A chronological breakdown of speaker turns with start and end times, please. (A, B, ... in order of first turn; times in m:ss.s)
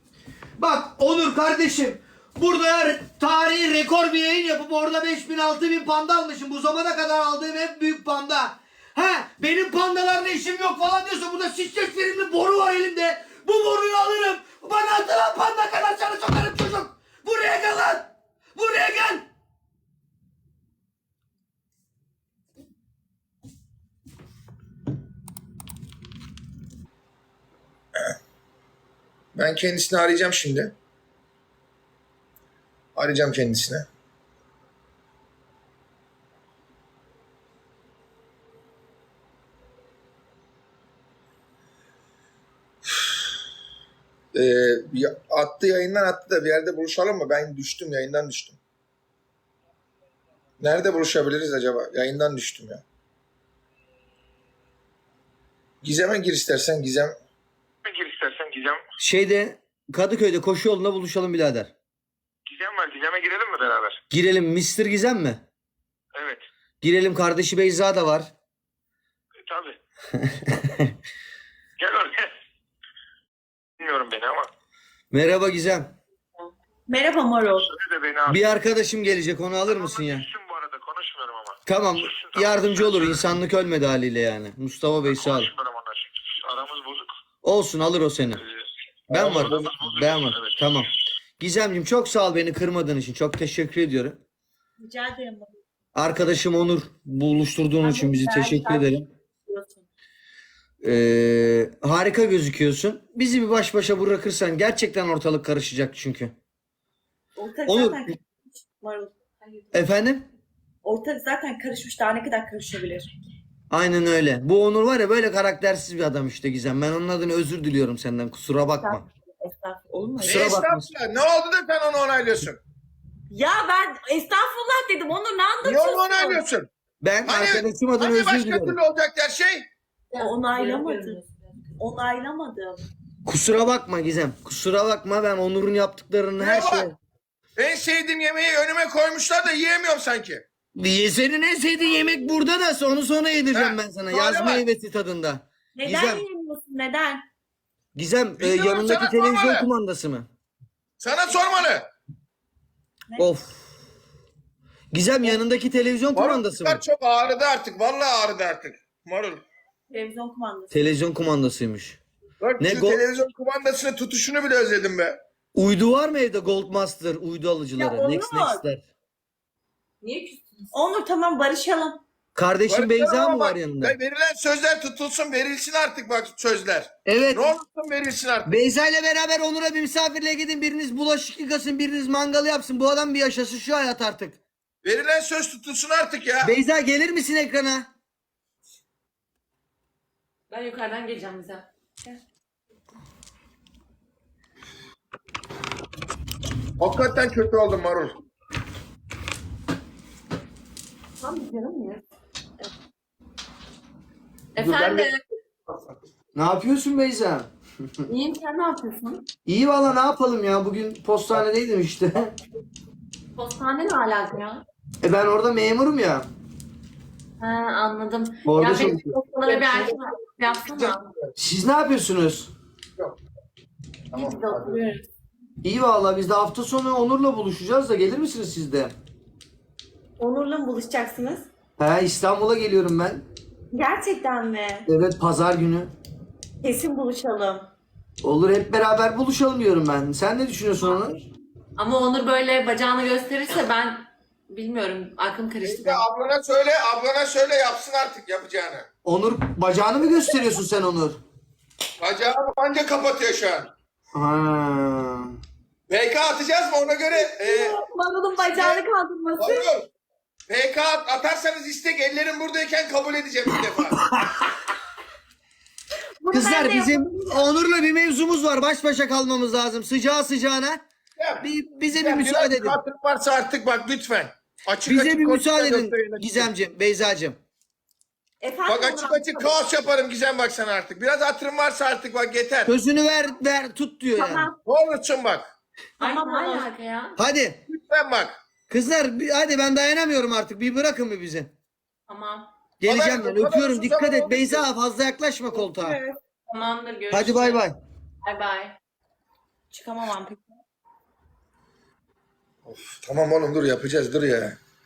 0:00.6-0:19.3 A
0:29.4-0:30.7 B
0:33.0-0:33.9 B
0:44.3-0:48.6 B
0:50.6-0:52.8 B
0:55.8-0:57.1 B
0:57.9-0:58.8 C
0:59.0-1:01.7 A
1:02.5-1:04.0 C
1:04.1-1:05.4 A
1:06.2-1:06.4 C
1:06.8-1:08.3 A
1:09.5-1:09.8 C
1:10.2-1:10.9 A
1:11.8-1:12.2 C
1:13.8-1:14.5 C
1:15.1-1:15.9 A
1:16.9-1:17.7 D
1:17.3-1:18.4 C
1:18.3-1:20.3 A
1:19.8-1:21.6 C
1:21.7-1:25.5 A
1:22.1-1:23.0 C
1:25.2-1:27.0 C
1:27.4-1:28.4 A
1:29.1-1:29.8 B
1:29.1-1:34.2 A
1:29.8-1:30.4 C
1:34.8-1:35.5 D
1:36.0-1:39.1 A
1:37.8-1:39.8 D
1:40.8-1:46.3 A
1:47.4-1:49.1 D
1:47.7-1:48.2 A
1:49.7-1:50.2 A
1:50.8-1:53.1 D
1:53.7-1:59.0 A
1:58.8-2:00.3 D
1:59.9-2:00.2 C
2:00.2-2:02.6 B
2:00.2-2:00.9 A
2:03.3-2:06.4 D
2:05.6-2:06.7 B
2:07.0-2:08.8 A
2:07.2-2:09.7 B
2:10.1-2:11.5 E
2:10.2-2:11.2 D
2:11.8-2:12.8 D
2:13.2-2:17.0 A
2:16.4-2:16.9 B
2:17.6-2:20.4 B
2:20.8-2:26.2 A
2:23.5-2:24.6 B
2:25.8-2:27.2 D
2:28.0-2:30.3 A
2:28.4-2:29.7 B
2:31.0-2:31.9 B
2:33.2-2:33.6 A
2:34.9-2:36.8 A
2:36.1-2:39.4 B
2:39.9-2:40.7 D
2:40.7-2:42.0 A
2:42.4-2:45.2 B
2:42.6-2:43.0 A
2:45.6-2:48.8 A
2:47.8-2:48.6 D
2:50.0-2:50.7 E
2:50.7-2:52.0 D
2:52.4-2:54.0 A
2:52.7-2:58.6 B
2:57.1-2:57.5 A
2:58.5-3:04.4 A
3:04.8-3:06.5 B
3:06.4-3:07.9 A
3:10.5-3:11.7 E
3:16.8-3:18.2 B
3:21.2-3:22.0 E
3:24.6-3:25.2 E
3:24.6-3:25.1 B
3:26.4-3:27.5 A
3:28.1-3:29.3 E
3:29.4-3:32.3 A
3:33.4-3:34.6 E
3:35.0-3:36.3 A
3:37.4-3:41.0 E
3:38.4-3:39.2 A
3:38.6-3:40.0 B
3:40.7-3:41.0 B
3:41.4-3:42.5 A
3:44.1-3:44.8 B
3:44.1-3:45.0 E
3:45.6-3:48.9 A
3:50.2-3:51.5 D
3:51.8-3:53.2 A
3:53.7-3:54.9 D
3:54.9-3:55.9 A
3:56.6-3:57.7 D
3:58.2-4:01.2 A
4:01.8-4:06.1 E
4:05.6-4:08.9 B
4:09.0-4:11.2 A
4:12.0-4:13.7 B
4:14.2-4:15.3 A
4:15.9-4:17.8 B
4:17.1-4:19.7 D
4:18.5-4:18.9 B
4:19.4-4:19.9 B
4:20.5-4:24.0 B
4:24.0-4:24.4 A
4:26.2-4:27.2 D
4:26.3-4:30.8 A
4:31.2-4:36.5 B
4:31.4-4:32.8 A
4:34.9-4:37.4 A
4:38.4-4:39.7 D
4:38.7-4:42.7 B
4:42.7-4:44.5 A
4:44.2-4:44.6 D
4:44.6-4:45.5 B
4:46.0-4:47.2 E
4:46.0-4:46.6 D
4:46.1-4:46.6 C
4:47.2-4:47.6 A
4:47.7-4:48.4 B
4:48.7-4:51.5 A
4:52.1-4:52.5 E
4:52.8-4:56.0 A
4:52.9-4:54.6 B
4:55.5-4:56.2 D
4:56.5-4:57.6 E
4:57.1-4:57.8 A
4:58.2-4:58.8 E
4:59.7-5:00.6 D
5:02.6-5:04.6 B